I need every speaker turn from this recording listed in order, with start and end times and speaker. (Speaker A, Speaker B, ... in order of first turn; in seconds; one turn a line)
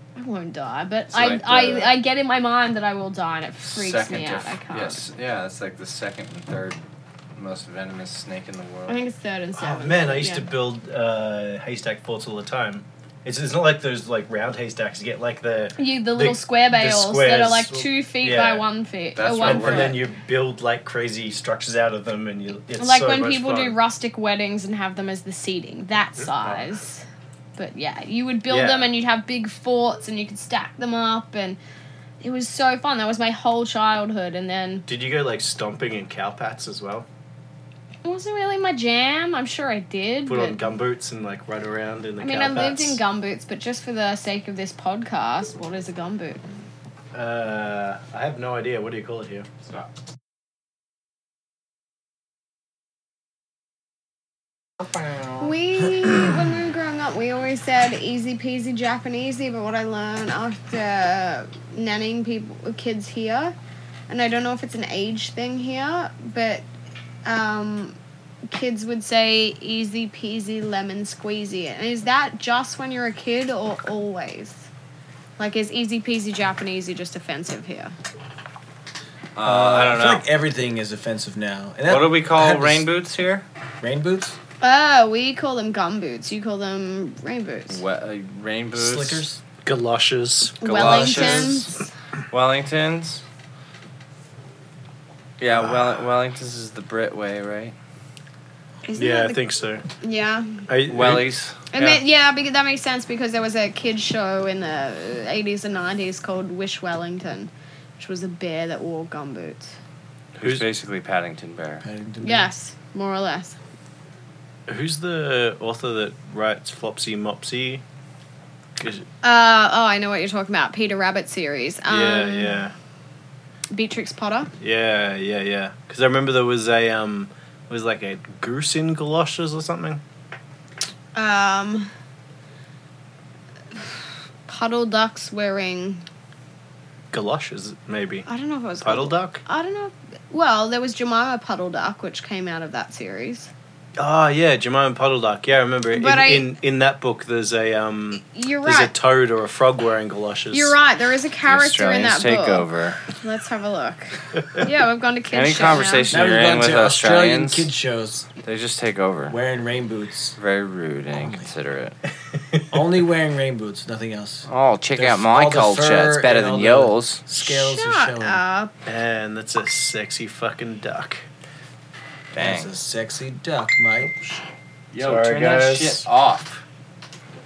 Speaker A: 0.2-5.0
Speaker B: 1.1-2.0
Speaker B: 3.6-6.8
Speaker B: 7.4-9.0
Speaker A: 8.9-10.5
Speaker C: 9.6-18.7
Speaker A: 15.8-20.0
Speaker B: 19.2-20.0
Speaker C: 19.4-23.8
Speaker A: 22.8-27.1
Speaker C: 26.2-26.7
Speaker A: 27.6-31.6
Speaker C: 28.5-28.9
Speaker A: 32.2-34.9
Speaker C: 34.9-37.1
Speaker A: 38.0-40.6
Speaker C: 40.3-43.0
Speaker A: 42.2-46.4
Speaker C: 47.1-49.5
Speaker A: 55.4-63.5
Speaker A: 64.1-66.7
Speaker A: 67.2-74.7
Speaker A: 75.4-77.9
Speaker B: 79.3-80.3
Speaker D: 79.4-82.9
Speaker B: 81.9-83.5
Speaker D: 83.8-84.4
Speaker A: 84.6-87.8
Speaker B: 87.7-89.3
Speaker D: 88.8-89.4
Speaker C: 89.7-91.6
Speaker A: 90.6-91.9
Speaker B: 90.6-91.7
Speaker B: 92.3-93.2
Speaker B: 95.4-97.8
Speaker A: 98.9-99.4
Speaker C: 99.0-99.8
Speaker A: 100.0-100.7
Speaker C: 100.7-101.3
Speaker B: 100.9-102.0
Speaker A: 101.7-109.8
Speaker C: 110.4-110.7
Speaker B: 110.4-111.8
Speaker D: 111.8-112.5
Speaker A: 112.2-113.6
Speaker C: 114.7-117.8
Speaker C: 118.8-119.1
Speaker A: 119.2-122.6
Speaker C: 121.9-122.7
Speaker A: 123.7-124.5
Speaker C: 124.6-130.0
Speaker A: 131.2-131.9
Speaker A: 133.8-136.1
Speaker C: 137.1-138.3
Speaker A: 138.3-143.5
Speaker C: 138.8-139.4
Speaker C: 144.0-150.8
Speaker A: 145.9-146.5
Speaker A: 148.3-148.9
Speaker A: 150.5-156.1
Speaker B: 151.5-153.0
Speaker B: 155.3-157.7
Speaker D: 156.1-158.3
Speaker B: 158.4-159.4
Speaker D: 159.3-160.4
Speaker B: 160.4-162.0
Speaker D: 161.1-161.5
Speaker D: 162.7-168.4
Speaker B: 164.5-167.2
Speaker A: 167.3-168.7
Speaker C: 168.9-171.3
Speaker B: 172.3-172.7
Speaker D: 172.4-174.4
Speaker B: 174.9-176.6
Speaker C: 175.0-176.1